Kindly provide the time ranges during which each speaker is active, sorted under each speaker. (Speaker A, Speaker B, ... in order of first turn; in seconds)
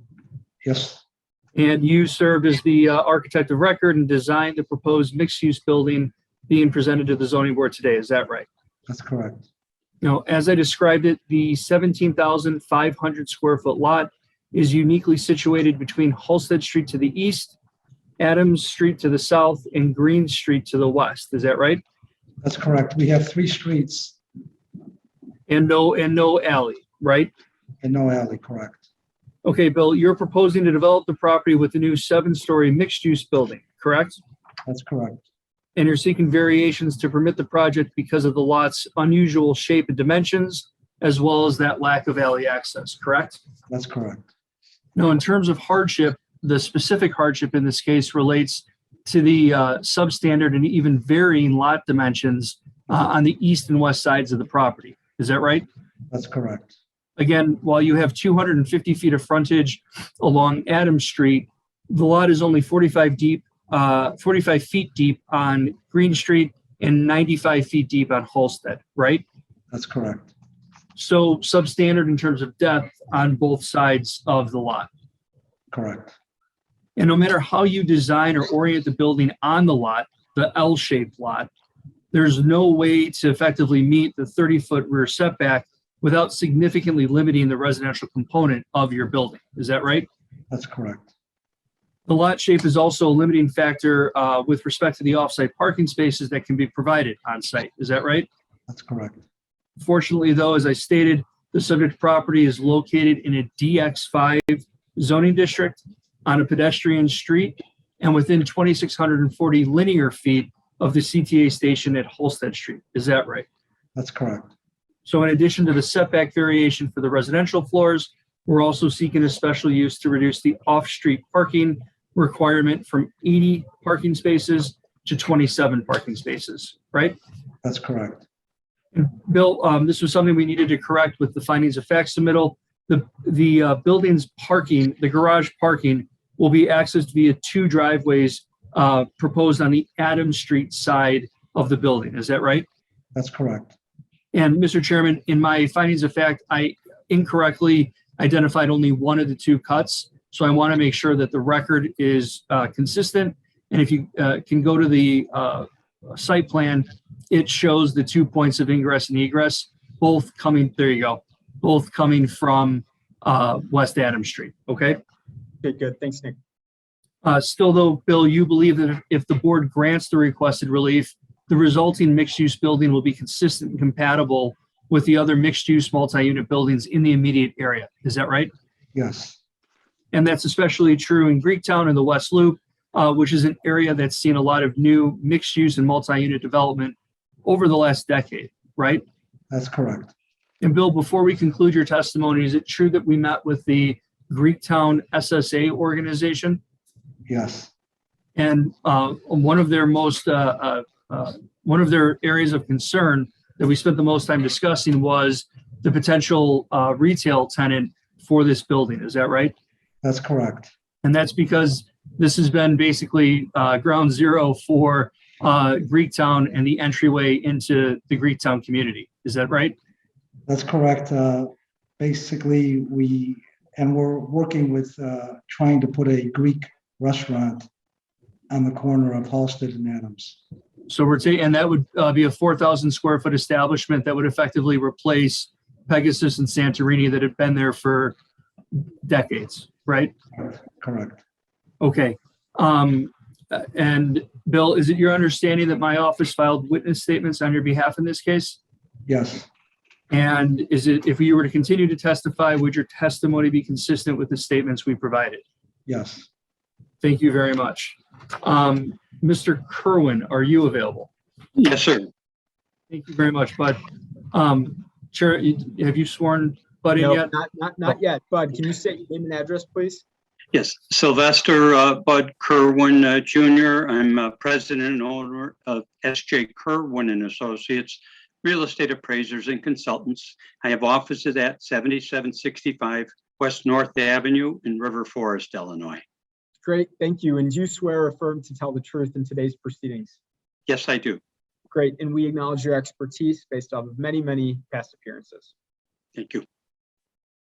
Speaker A: 0.6-1.0, 8.9-9.4, 22.4-24.1, 27.8-28.8, 34.6-35.2, 43.7-44.2, 56.1-56.7, 69.7-70.3, 75.7-76.1, 90.5-91.1, 98.7-99.2, 114.0-114.5, 127.6-128.2, 143.1-143.7, 178.9-179.4, 189.5-190.1, 197.3-197.7, 210.0-210.7, 220.5-227.7, 228.5-230.4, 240.4-241.2, 249.1-249.5, 255.9-256.2
Speaker B: 1.6-8.5, 10.0-17.6, 18.2-21.8, 25.5-27.3, 29.4-34.2, 35.8-43.4, 45.0-55.6, 57.2-69.2, 71.0-74.9, 77.0-81.5, 82.1-90.1, 92.1-98.3, 99.8-113.5, 115.0-127.2, 128.9-142.7, 144.3-165.0, 167.2-178.5, 180.1-189.0, 190.6-196.6, 198.3-209.5, 211.0-219.7, 230.9-238.1, 239.0-240.1, 241.8-248.6, 250.1-255.4, 257.0-261.1, 262.9-263.8, 264.3-267.3
Speaker C: 165.6-166.4, 267.0-270.0, 286.6-290.1, 291.7-295.5
Speaker D: 261.6-262.1, 270.5-286.0, 290.7-291.2, 296.1-296.4